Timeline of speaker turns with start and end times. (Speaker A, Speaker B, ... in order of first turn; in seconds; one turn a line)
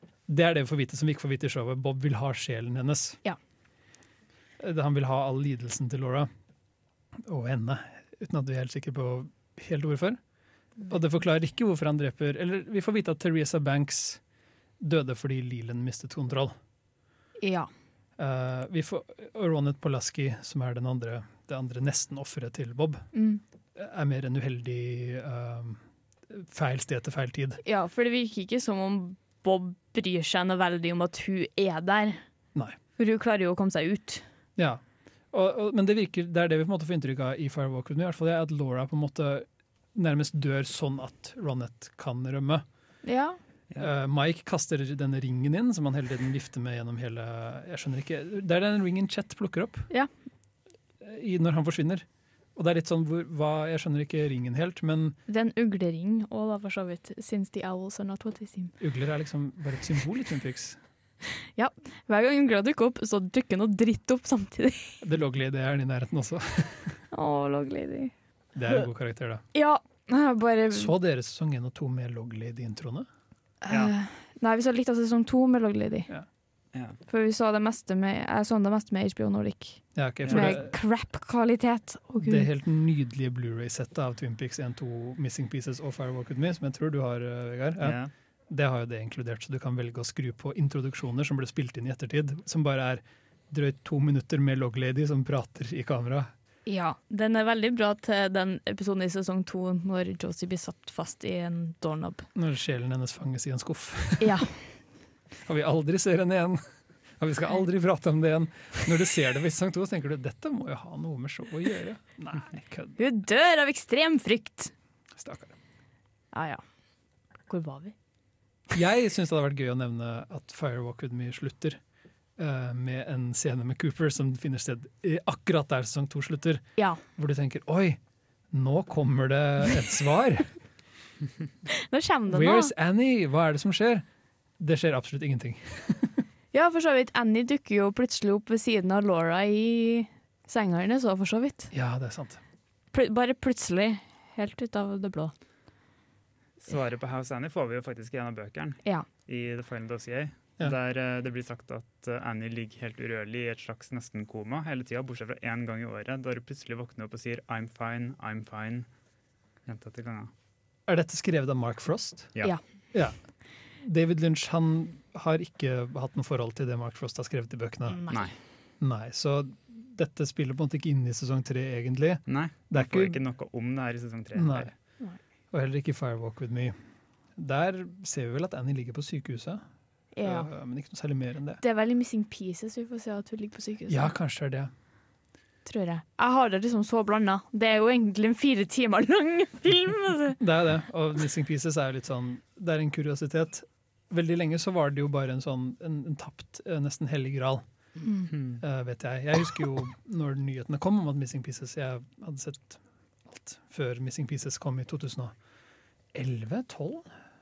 Speaker A: 0.3-3.2
Speaker A: 4.6-6.3
Speaker A: 7.2-10.2
Speaker A: 10.9-14.2
Speaker A: 14.8-16.5
Speaker B: 17.4-17.7
Speaker A: 18.2-23.1
Speaker B: 23.1-23.4
Speaker A: 23.8-27.6
Speaker B: 27.6-32.2
Speaker B: 33.0-34.2
Speaker A: 35.3-42.6
Speaker B: 43.0-43.4
Speaker A: 43.8-49.9
Speaker A: 51.0-55.2
Speaker B: 55.3-58.7
Speaker A: 58.8-60.8
Speaker B: 61.5-65.0
Speaker A: 65.0-67.0
Speaker B: 67.1-68.1
Speaker A: 68.5-69.4
Speaker B: 69.5-70.9
Speaker A: 70.7-73.1
Speaker B: 73.6-76.1
Speaker B: 77.1-82.5
Speaker A: 79.9-80.7
Speaker C: 80.2-80.6
Speaker A: 82.2-88.0
Speaker C: 87.8-88.1
Speaker A: 88.5-96.3
Speaker B: 96.7-102.3
Speaker A: 102.3-104.5
Speaker B: 104.2-104.5
Speaker A: 105.4-106.6
Speaker A: 107.2-113.0
Speaker B: 113.0-114.7
Speaker A: 115.2-115.5
Speaker B: 116.3-116.6
Speaker B: 117.5-117.9
Speaker A: 118.7-121.8
Speaker A: 122.4-126.6
Speaker B: 126.8-127.0
Speaker A: 127.1-128.0
Speaker A: 128.5-130.5
Speaker B: 131.7-132.7
Speaker A: 132.3-134.0
Speaker A: 134.6-136.2
Speaker B: 136.5-141.7
Speaker A: 141.7-142.4
Speaker B: 142.9-145.3
Speaker C: 146.6-158.9
Speaker C: 159.7-160.3
Speaker A: 160.9-162.3
Speaker A: 163.8-168.0
Speaker B: 167.9-168.3
Speaker A: 168.8-173.2
Speaker C: 172.3-174.7
Speaker A: 174.3-174.7
Speaker A: 175.5-176.7
Speaker A: 177.4-179.6
Speaker B: 180.1-180.5
Speaker A: 180.2-181.6
Speaker B: 181.6-184.1
Speaker A: 183.9-184.7
Speaker B: 185.7-190.4
Speaker A: 190.4-197.7
Speaker C: 198.3-198.6
Speaker A: 198.6-205.3
Speaker A: 206.1-207.1